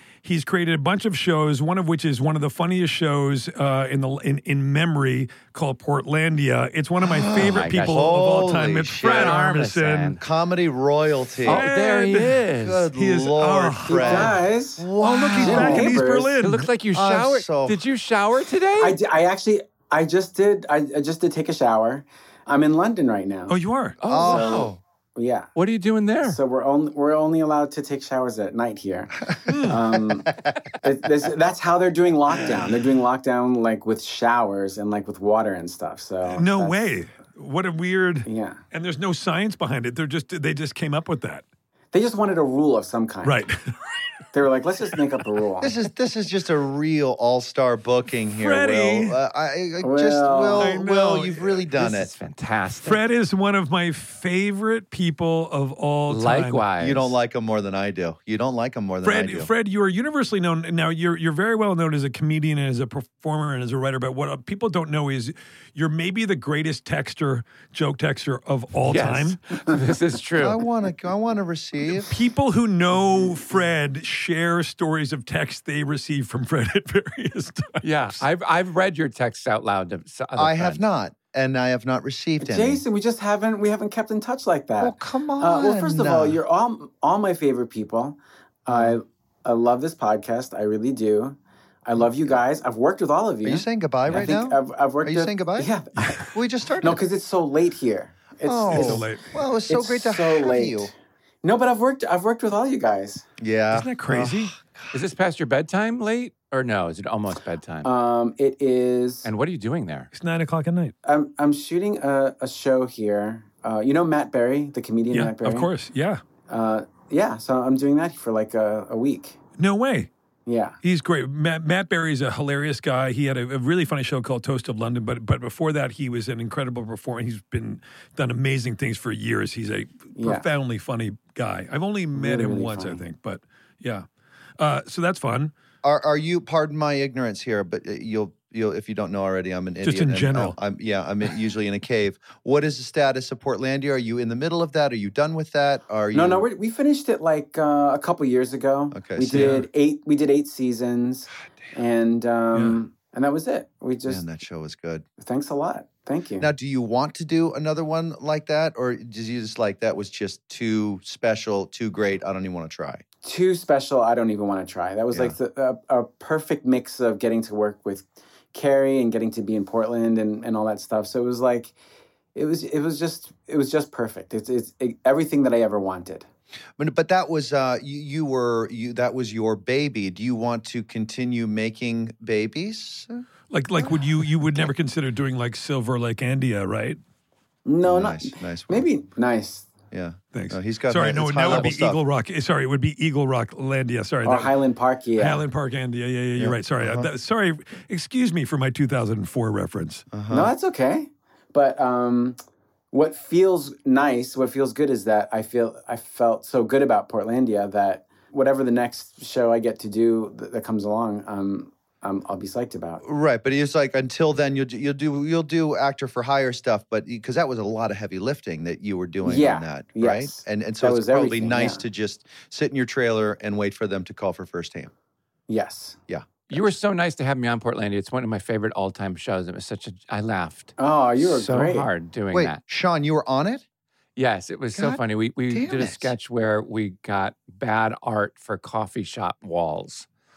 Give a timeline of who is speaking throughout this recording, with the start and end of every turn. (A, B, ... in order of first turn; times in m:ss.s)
0:00.2-0:10.2 A
0:07.0-0:09.4 B
0:07.3-0:08.2 C
0:09.0-0:10.2 C
0:10.2-0:11.7 B
0:11.4-0:12.9 C
0:11.4-0:14.4 A
0:12.6-0:15.9 B
0:13.8-0:14.9 D
0:15.0-0:16.7 A
0:15.4-0:16.3 D
0:15.5-0:15.9 C
0:16.4-0:19.0 C
0:16.9-0:17.8 B
0:18.8-0:23.6 D
0:23.5-0:24.0 A
0:24.0-0:24.8 C
0:24.0-0:24.7 B
0:24.2-0:25.5 D
0:25.5-0:26.4 C
0:26.2-0:30.3 D
0:29.4-0:29.8 A
0:30.8-0:36.9 D
0:36.3-0:41.4 A
0:38.2-0:38.6 D
0:41.9-0:43.4 D
0:43.2-0:43.5 A
0:44.3-0:45.7 D
0:45.6-0:52.1 B
0:48.4-0:49.2 A
0:49.8-0:50.7 D
0:50.6-0:51.6 A
0:51.7-0:53.0 C
0:52.8-0:56.6 A
0:56.1-0:57.1 C
0:56.8-0:59.5 B
0:59.0-1:09.4 A
1:08.8-1:10.6 C
1:10.4-1:12.1 B
1:12.0-1:18.2 A
1:17.8-1:20.8 C
1:20.4-1:22.8 B
1:22.4-1:39.0 D
1:24.8-1:26.4 B
1:33.4-1:37.0 B
1:38.4-1:40.9 B
1:38.7-1:39.3 A
1:39.7-1:43.2 D
1:43.4-1:44.8 B
1:43.7-1:44.5 A
1:44.9-1:47.9 C
1:47.8-1:49.3 D
1:49.2-1:50.1 C
1:50.1-1:50.9 A
1:51.0-1:55.7 D
1:55.1-1:56.2 A
1:56.5-1:59.4 D
1:59.6-2:00.1 A
2:00.4-2:00.8 D
2:00.8-2:14.0 A
2:10.2-2:10.4 D
2:12.1-2:13.0 D
2:14.6-2:15.5 A
2:15.8-2:26.4 B
2:19.8-2:20.6 A
2:26.1-2:34.2 D
2:28.9-2:29.5 B
2:29.3-2:29.7 A
2:34.1-2:35.0 B
2:35.2-2:36.5 D
2:36.4-2:43.0 B
2:43.2-2:51.7 D
2:52.3-2:56.2 D
2:56.8-3:03.2 B
3:03.5-3:07.0 A
3:07.6-3:09.7 D
3:07.8-3:08.9 B
3:09.9-3:12.0 B
3:10.3-3:14.5 A
3:14.2-3:15.4 D
3:15.2-3:20.1 A
3:16.4-3:17.1 B
3:20.1-3:20.5 B
3:20.3-3:22.4 D
3:22.9-3:33.0 D
3:33.0-3:44.9 B
3:39.2-3:41.8 D
3:45.5-3:46.0 D
3:46.1-3:46.7 B
3:46.5-3:52.6 C
3:50.8-3:51.9 D
3:52.3-3:53.6 B
3:54.2-4:00.1 C
3:54.7-3:56.1 B